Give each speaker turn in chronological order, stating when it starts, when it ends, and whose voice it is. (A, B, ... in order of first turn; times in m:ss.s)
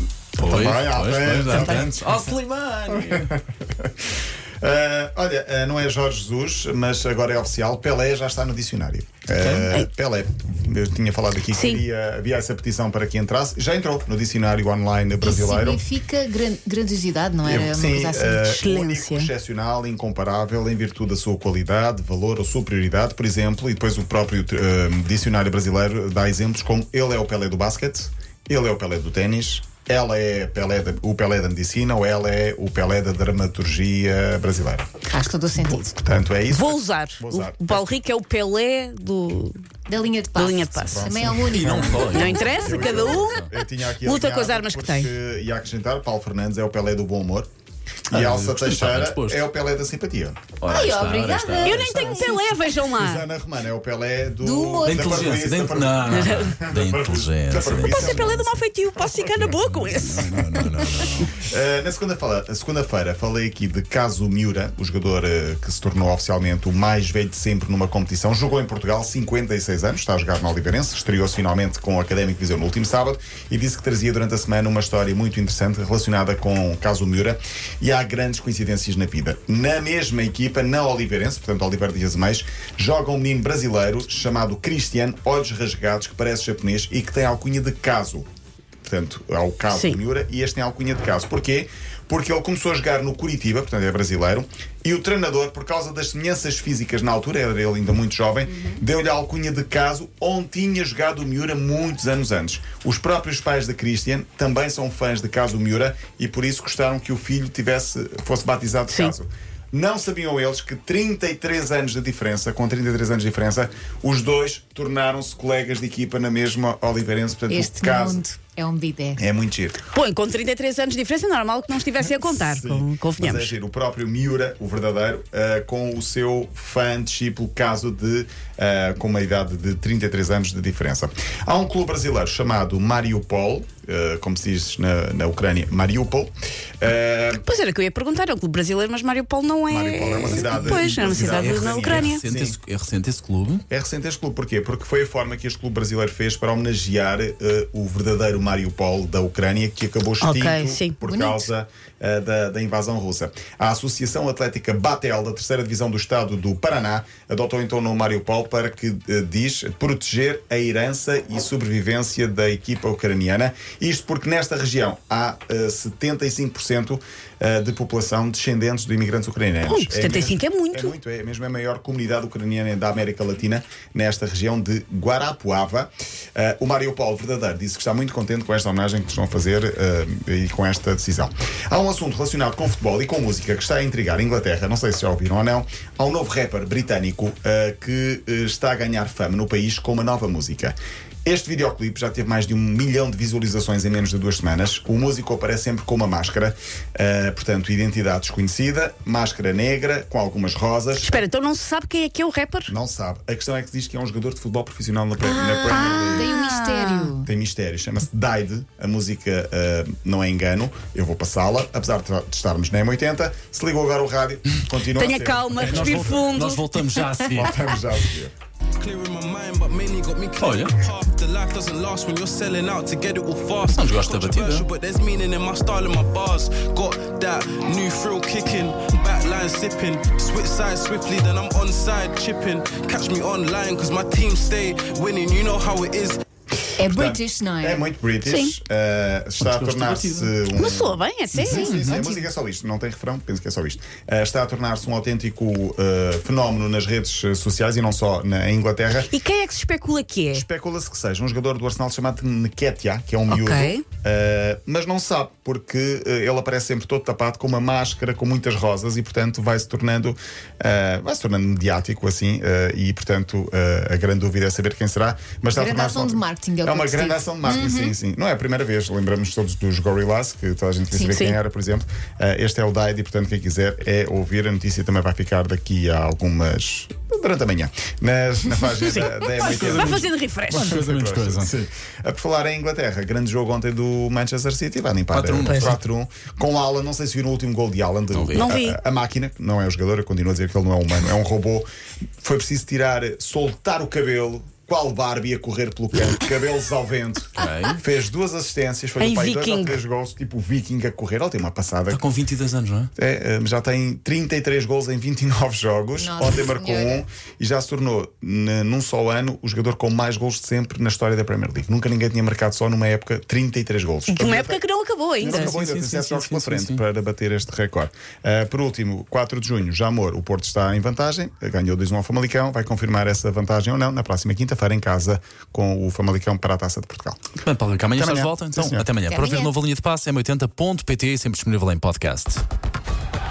0:00.4-0:02.3 A
0:00.4-0:03.3 B
0:01.5-0:01.9 C
0:02.9-0:03.9 A
0:04.6-0:15.8 A
0:09.4-0:09.7 B
0:11.5-0:11.8 C
0:15.2-0:18.6 D
0:17.4-0:34.9 A
0:18.4-0:19.3 C
0:35.1-0:35.9 D
0:35.7-0:38.0 A
0:36.5-0:39.6 C
0:39.9-0:42.9 D
0:40.3-0:41.1 C
0:40.8-0:47.5 A
0:41.5-0:43.4 B
0:41.9-0:45.1 C
0:48.1-0:50.4 A
0:48.1-0:49.5 B
0:50.6-0:52.4 B
0:50.7-0:52.2 D
0:51.6-0:53.3 C
0:52.9-0:58.6 A
0:54.4-0:55.3 D
0:54.8-0:58.4 B
0:56.1-0:56.6 C
0:57.8-1:00.6 C
0:59.3-1:01.4 B
1:01.3-1:28.2 A
1:28.8-1:58.2 A
1:29.7-1:30.0 C
1:48.9-1:49.1 C
1:57.5-1:59.2 D
1:59.2-1:59.8 A
1:59.9-2:03.5 C
2:02.2-2:17.4 A
2:17.4-2:22.2 C
2:19.7-2:22.6 A
2:20.3-2:23.6 B
2:23.7-3:21.2 A
2:30.2-2:31.0 C
2:31.0-2:31.5 D
2:49.7-2:50.9 C
3:21.0-3:22.7 C
3:22.7-3:26.3 A
3:25.2-3:27.3 D
3:25.7-3:27.1 C
3:27.2-3:36.3 A
3:34.9-3:37.3 C
3:35.5-3:37.6 B
3:37.3-3:38.3 A
3:38.8-3:56.2 E
3:40.4-3:40.7 B
3:43.7-3:44.6 B
3:56.8-3:57.8 D
3:56.8-4:09.1 A
3:58.2-3:58.5 C
3:59.4-4:00.3 B
4:00.5-4:01.8 C
4:01.4-4:02.2 D
4:01.6-4:02.0 B
4:09.0-4:10.4 C
4:10.3-4:51.7 A
4:13.3-4:13.8 C
4:25.5-4:27.9 D
4:30.9-4:31.4 C
4:38.7-4:40.8 C
4:39.4-4:41.7 B
4:45.1-4:45.8 B
4:45.4-4:45.8 C
4:48.1-4:48.6 B
4:48.3-4:48.8 C
4:52.2-5:02.0 A
4:57.4-4:57.8 B
4:59.0-4:59.8 C
5:01.9-5:02.9 B
5:03.0-5:14.6 A
5:05.9-5:07.0 D
5:14.1-5:15.5 C
5:15.2-5:16.8 B
5:15.2-5:27.2 A
5:27.4-5:32.4 B
5:27.9-5:28.9 A
5:29.0-5:29.5 D